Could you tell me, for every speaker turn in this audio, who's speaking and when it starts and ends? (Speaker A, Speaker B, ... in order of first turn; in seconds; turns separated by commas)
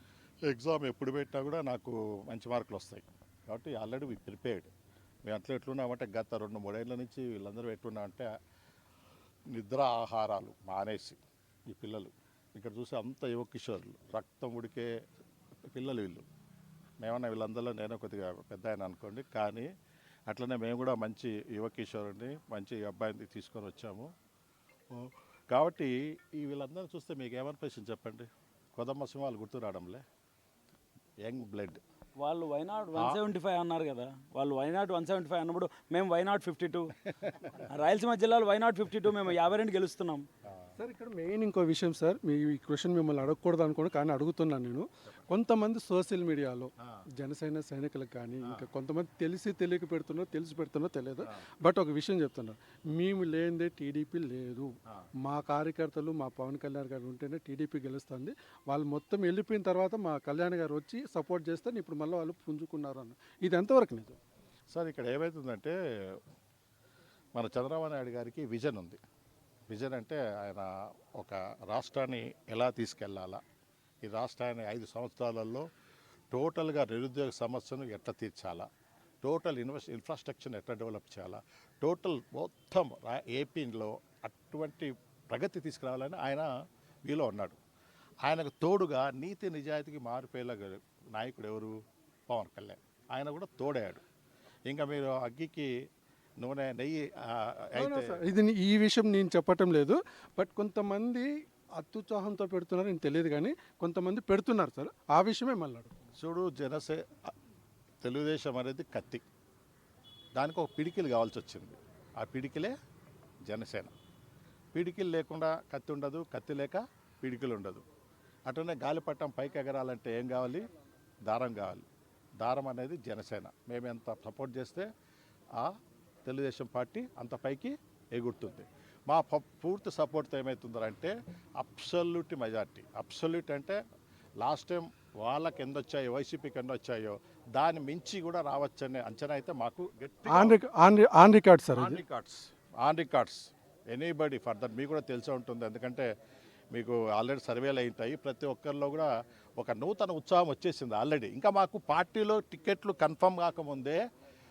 Speaker A: 0.5-4.7, Speaker A: 5.2-8.3, Speaker A: 9.5-11.2, Speaker A: 11.7-14.9, Speaker A: 15.7-16.2, Speaker A: 17.0-19.7, Speaker A: 20.3-24.1, Speaker A: 24.9-30.0, Speaker A: 31.2-31.8, Speaker B: 32.2-36.9, Speaker B: 37.5-40.2, Speaker C: 40.8-54.7, Speaker C: 55.3-64.2, Speaker A: 64.7-66.2, Speaker A: 67.3-69.0, Speaker A: 69.7-73.4, Speaker A: 74.0-75.7, Speaker A: 76.3-78.7, Speaker A: 79.2-86.5, Speaker A: 87.1-87.6, Speaker A: 88.2-91.8, Speaker A: 92.3-94.0, Speaker A: 94.7-95.7, Speaker A: 96.4-98.2, Speaker C: 97.8-101.3, Speaker C: 101.8-106.0, Speaker A: 106.2-107.3, Speaker A: 108.0-109.2, Speaker A: 110.4-112.8, Speaker A: 113.5-113.9, Speaker A: 114.7-117.8, Speaker A: 118.5-120.6, Speaker A: 121.3-121.8, Speaker A: 122.4-124.9, Speaker A: 126.2-133.8, Speaker A: 134.4-140.6, Speaker C: 140.3-142.0, Speaker A: 141.8-146.1, Speaker A: 146.7-154.0